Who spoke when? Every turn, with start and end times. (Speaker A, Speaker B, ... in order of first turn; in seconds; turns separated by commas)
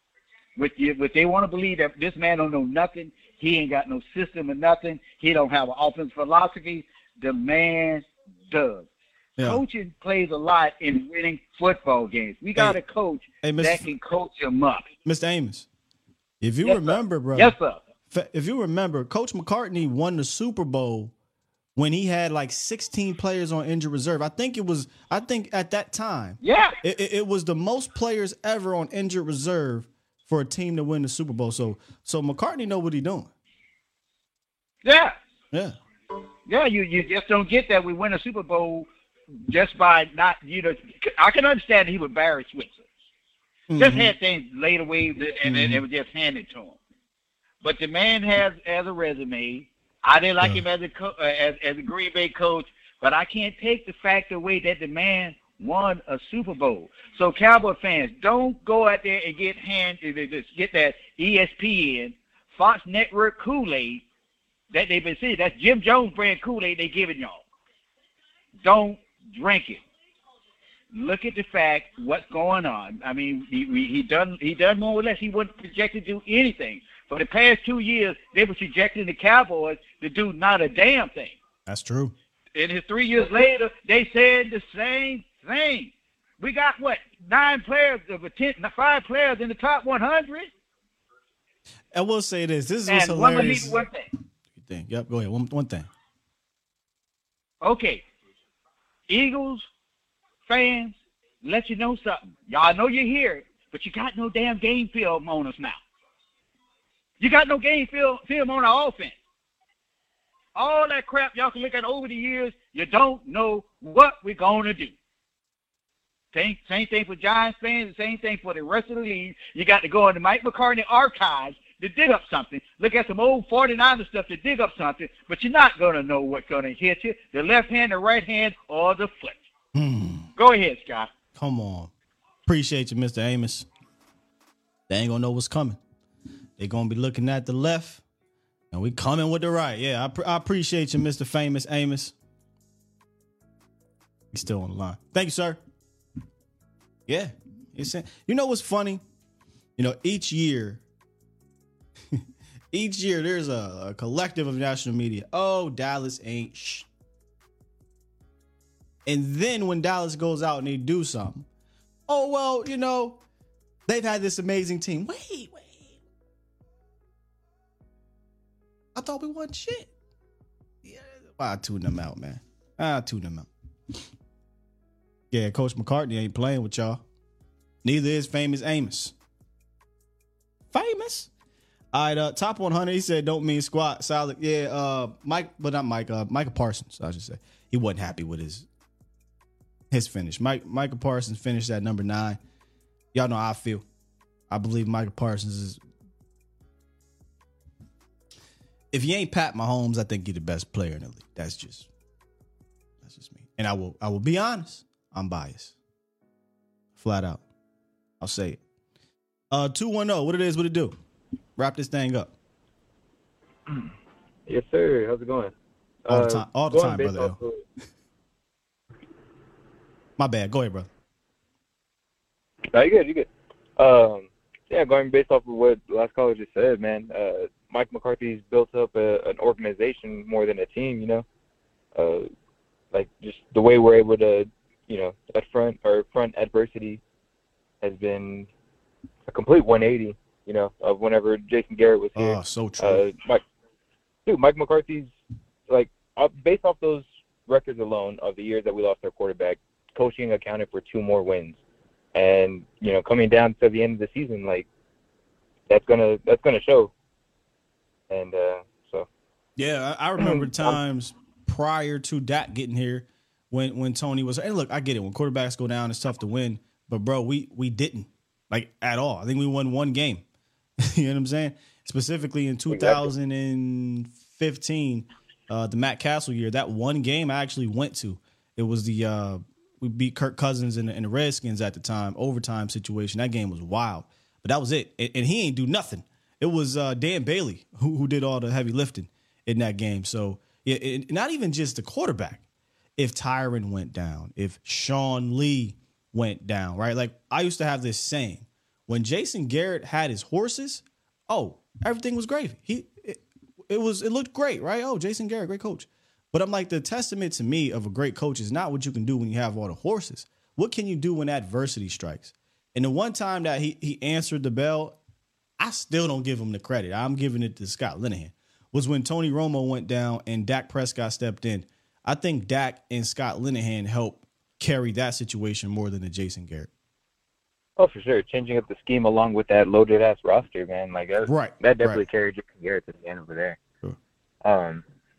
Speaker A: 0.6-8.9, Speaker A: 9.4-14.9, Speaker B: 13.4-13.9, Speaker B: 15.1-15.7, Speaker B: 16.4-17.6, Speaker A: 16.6-17.8, Speaker B: 18.1-21.1, Speaker B: 21.8-33.3, Speaker A: 26.4-26.8, Speaker A: 34.8-35.2, Speaker A: 36.5-38.9, Speaker A: 39.5-42.8, Speaker B: 43.7-44.1, Speaker A: 43.8-46.8, Speaker B: 45.5-45.8, Speaker A: 47.6-64.0, Speaker B: 50.4-50.6, Speaker A: 64.7-67.4, Speaker A: 68.6-69.8, Speaker A: 70.9-81.4, Speaker B: 81.7-82.2, Speaker A: 82.5-90.5, Speaker B: 91.9-93.8, Speaker A: 92.9-94.1, Speaker B: 94.6-95.9, Speaker A: 97.6-98.0, Speaker A: 99.1-99.7, Speaker A: 100.5-105.8, Speaker A: 107.2-109.2, Speaker A: 110.6-115.0, Speaker A: 116.3-129.4, Speaker B: 129.8-130.3, Speaker A: 130.4-131.1, Speaker B: 131.4-131.9, Speaker B: 132.5-133.7, Speaker B: 134.9-135.8, Speaker B: 136.6-138.0, Speaker B: 138.7-142.1, Speaker B: 144.3-145.6, Speaker B: 147.1-149.0, Speaker B: 149.8-150.8, Speaker B: 152.7-156.9, Speaker B: 159.1-161.5, Speaker B: 162.1-163.2, Speaker B: 163.9-166.0, Speaker B: 168.9-169.9, Speaker B: 170.8-173.5, Speaker B: 175.3-177.0, Speaker B: 177.8-179.1, Speaker B: 180.7-181.3, Speaker B: 181.9-188.7, Speaker B: 189.9-192.4, Speaker B: 193.1-193.8, Speaker B: 194.5-195.8, Speaker B: 198.9-201.9, Speaker B: 203.0-205.8, Speaker B: 207.0-207.4, Speaker B: 208.2-208.6, Speaker B: 209.5-211.0, Speaker B: 211.6-212.3, Speaker C: 214.5-215.5, Speaker C: 216.1-217.6, Speaker B: 216.1-217.4, Speaker B: 220.2-220.9, Speaker C: 222.7-231.2, Speaker C: 231.9-232.3, Speaker C: 232.9-237.0, Speaker C: 237.8-238.5, Speaker C: 239.3-243.4, Speaker B: 242.2-243.1, Speaker C: 244.3-245.1, Speaker C: 245.7-251.6, Speaker C: 252.2-254.7, Speaker C: 255.7-256.9, Speaker C: 258.1-259.1, Speaker B: 259.6-270.2, Speaker C: 260.2-260.8, Speaker B: 270.8-292.4, Speaker C: 272.7-273.1, Speaker B: 293.0-315.0, Speaker B: 315.6-326.7, Speaker C: 327.8-333.6, Speaker B: 331.3-332.1, Speaker C: 334.4-334.8